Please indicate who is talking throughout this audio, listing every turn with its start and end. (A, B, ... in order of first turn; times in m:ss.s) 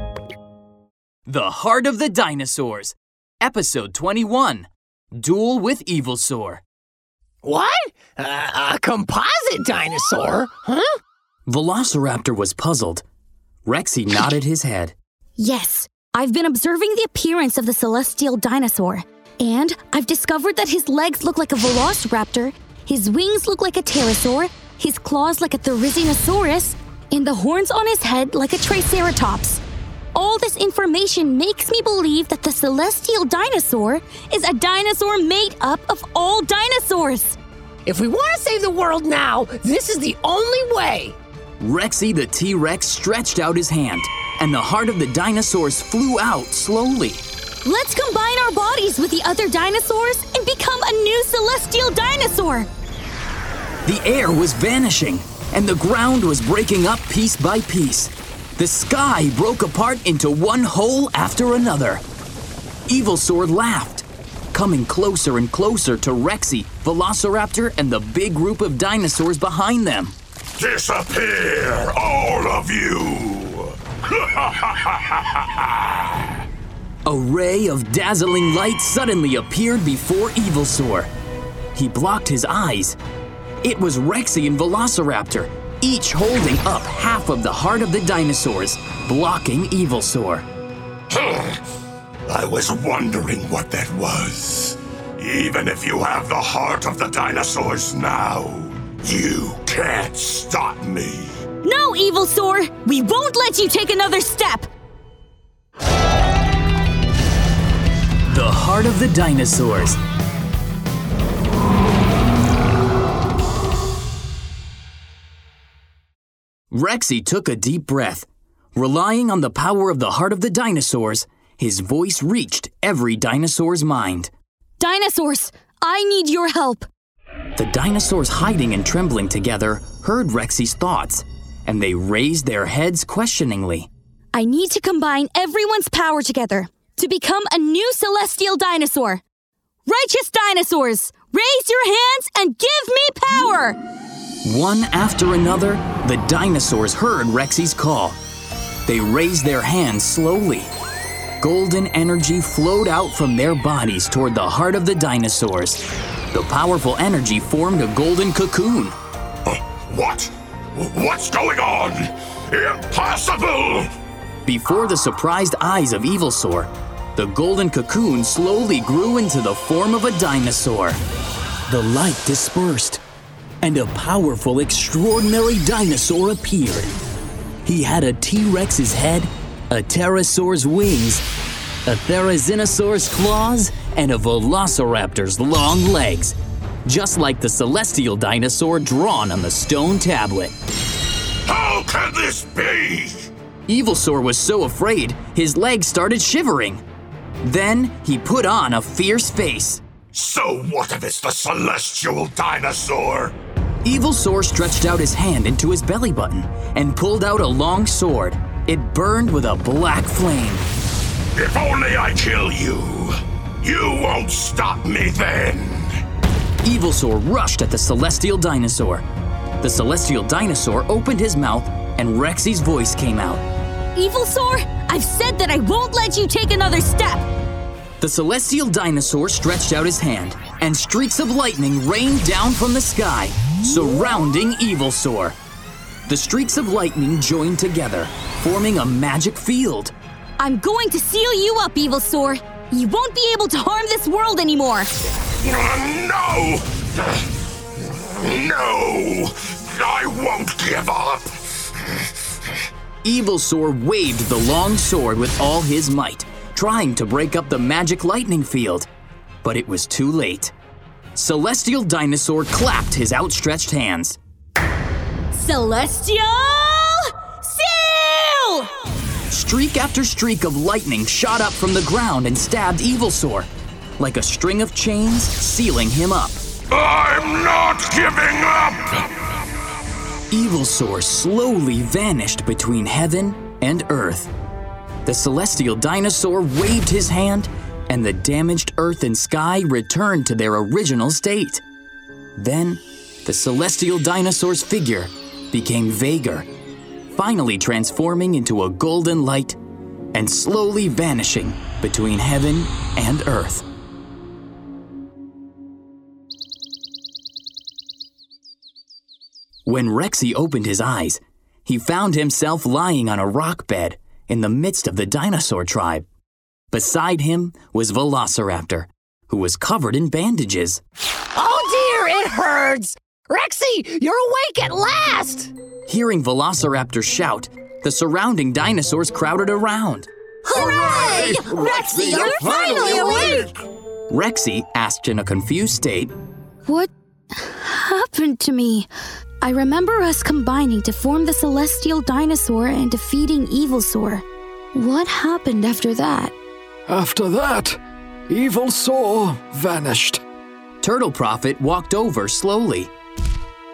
0:01.2-0:06.6 A
0:07.4-0:10.9 B
0:11.5-0:13.0 A
0:13.6-0:14.9 A
0:15.4-0:29.6 C
0:30.1-0:37.4 C
0:37.8-0:41.2 B
0:41.6-0:47.2 A
0:47.6-0:52.7 C
0:53.8-1:02.0 A
1:02.9-1:10.2 A
1:10.6-1:16.3 D
1:17.0-1:21.1 A
1:21.7-1:23.0 A
1:23.6-1:30.4 A
1:31.1-1:31.6 D
1:32.2-1:41.4 D
1:41.6-1:44.7 C
1:48.2-1:50.0 A
1:56.7-2:04.3 A
2:04.8-2:06.9 C
2:07.6-2:13.9 A
2:14.3-2:19.2 C
2:19.8-2:23.8 C
2:24.4-2:28.2 A
2:28.8-2:30.7 A
2:31.4-2:39.0 A
2:39.5-2:43.9 D
2:44.4-2:51.0 A
2:51.7-2:53.0 A
2:53.6-2:56.9 A
2:57.6-3:01.2 A
3:01.8-3:10.5 A
3:11.4-3:13.3 D
3:13.7-3:16.8 A
3:17.4-3:19.8 A
3:20.1-3:23.3 D
3:23.8-3:30.6 A
3:31.3-3:35.9 D
3:36.6-3:39.0 A
3:39.6-3:43.4 A
3:43.9-3:47.3 C
3:48.0-3:55.4 A
3:56.1-3:59.9 A
4:00.4-4:04.9 C
4:05.4-4:07.2 D
4:07.8-4:12.1 D
4:13.0-4:18.9 A
4:19.4-4:20.5 A
4:21.1-4:24.2 A
4:25.3-4:28.7 C
4:29.3-4:33.5 A
4:34.0-4:36.4 A
4:36.7-4:39.1 D
4:40.3-4:44.3 A
4:45.0-4:51.6 A
4:52.4-4:56.5 A
4:57.1-4:59.6 A
5:00.1-5:03.6 A
5:09.6-5:16.0 A
5:16.7-5:20.8 A
5:21.4-5:25.5 B
5:25.8-5:30.1 A
5:30.4-5:33.5 C
5:30.5-5:33.5 E
5:34.1-5:36.1 A
5:36.6-5:38.9 C
5:39.4-5:46.3 C
5:46.9-5:50.2 E
5:50.8-5:52.9 A